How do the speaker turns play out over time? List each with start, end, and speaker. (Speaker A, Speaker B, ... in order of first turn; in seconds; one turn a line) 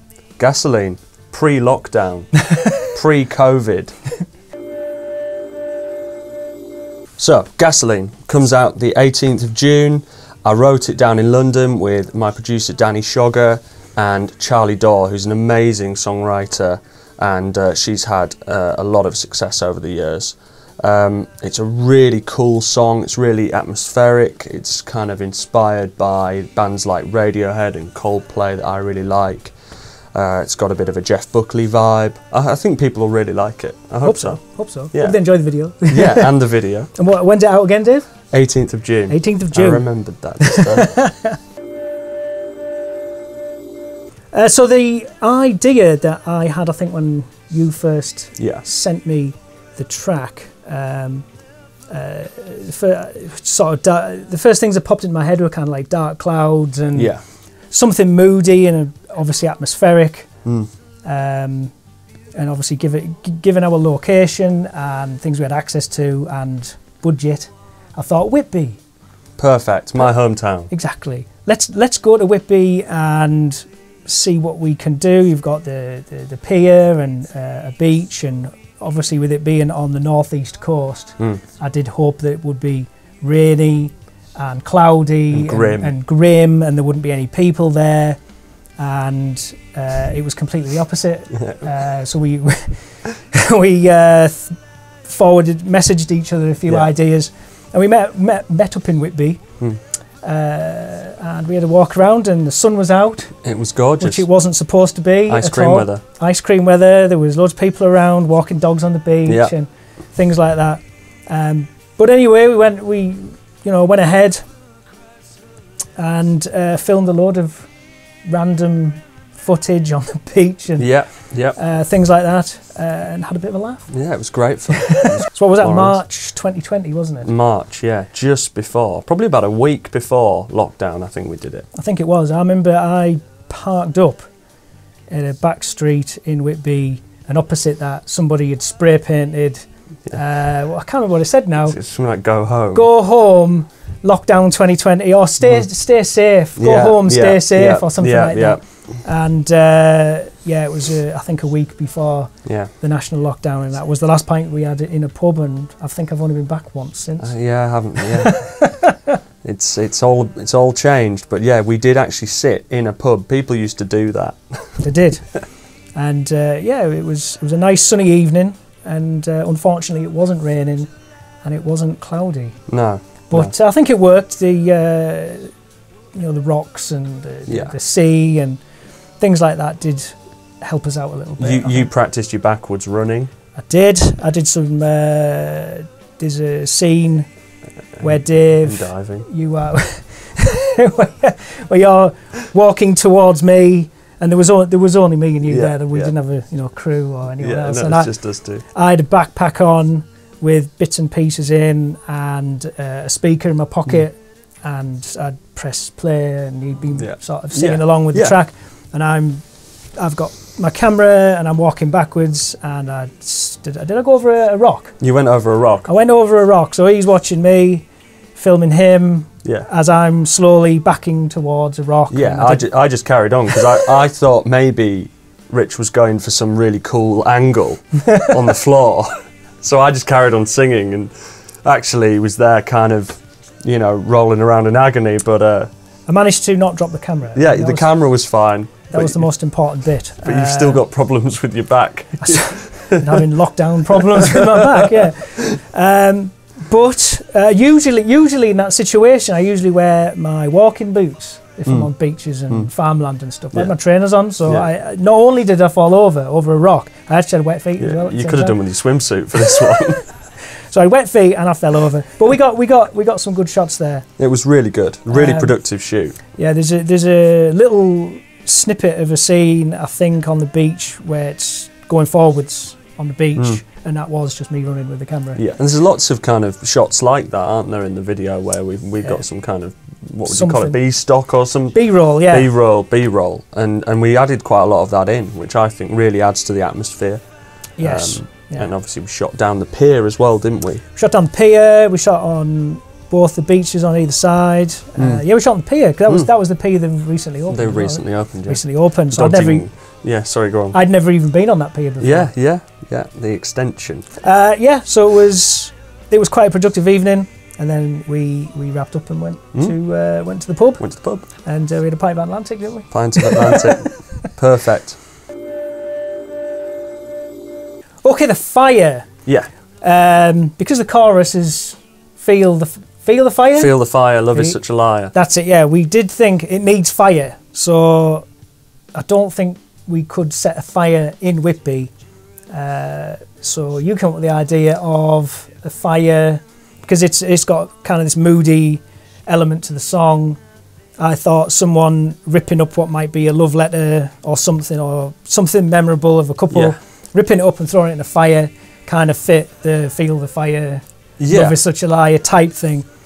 Speaker A: 0.4-4.0
Speaker A: 7.2-29.6
Speaker A: 30.1-35.3
Speaker B: 34.0-38.3
Speaker A: 35.8-36.9
Speaker A: 38.3-41.0
Speaker B: 39.1-41.4
Speaker B: 44.3-51.3
Speaker A: 48.4-48.6
Speaker B: 51.9-57.2
Speaker A: 56.9-57.2
Speaker B: 57.7-60.4
Speaker A: 60.4-60.7
Speaker B: 61.0-61.7
Speaker B: 62.3-68.8
Speaker A: 69.4-70.7
Speaker B: 70.7-88.2
Speaker A: 85.3-85.9
Speaker B: 88.8-99.4
Speaker B: 100.2-103.4
Speaker A: 103.4-104.2
Speaker B: 104.0-114.4
Speaker A: 105.3-106.0
Speaker A: 109.2-109.5
Speaker B: 116.0-117.7
Speaker B: 118.2-124.1
Speaker A: 120.8-121.6
Speaker A: 123.9-126.0
Speaker B: 124.8-127.3
Speaker A: 127.2-131.7
Speaker B: 131.7-134.3
Speaker B: 135.1-141.8
Speaker A: 141.6-142.9
Speaker B: 142.7-158.9
Speaker A: 145.4-145.7
Speaker A: 146.6-149.0
Speaker A: 152.4-152.7
Speaker A: 157.2-158.5
Speaker A: 159.4-164.8
Speaker B: 164.8-170.9
Speaker B: 171.4-172.6
Speaker A: 172.7-173.5
Speaker B: 173.3-175.5
Speaker B: 176.1-178.6
Speaker A: 177.5-177.7
Speaker B: 179.2-181.9
Speaker A: 181.4-183.3
Speaker B: 183.6-187.2
Speaker A: 188.0-189.3
Speaker B: 188.0-209.4
Speaker A: 195.5-196.1
Speaker A: 197.4-198.6
Speaker A: 206.9-208.3
Speaker B: 209.9-215.0
Speaker A: 215.0-215.9
Speaker B: 215.8-222.7
Speaker A: 219.4-219.7
Speaker A: 222.1-229.1
Speaker A: 229.6-235.7
Speaker B: 236.1-237.9
Speaker A: 237.3-239.3
Speaker B: 238.9-240.8
Speaker A: 240.2-243.1
Speaker B: 242.2-258.6
Speaker A: 251.7-251.9
Speaker A: 257.8-260.1
Speaker B: 260.7-264.1
Speaker A: 264.2-266.2
Speaker B: 265.1-265.6
Speaker B: 266.2-275.4
Speaker A: 273.4-273.6
Speaker A: 275.3-290.8
Speaker B: 280.2-281.2
Speaker B: 281.7-282.5
Speaker B: 287.8-288.7
Speaker B: 290.9-299.7
Speaker A: 295.0-295.2
Speaker A: 297.5-300.8
Speaker B: 300.7-302.3
Speaker A: 302.0-304.1
Speaker B: 304.2-314.1
Speaker A: 310.8-311.3
Speaker A: 312.9-315.0
Speaker B: 318.0-319.1
Speaker B: 319.8-328.3
Speaker A: 323.6-325.1
Speaker B: 328.9-331.9
Speaker B: 332.5-340.4
Speaker B: 341.0-352.9
Speaker A: 346.5-346.8
Speaker A: 351.2-351.6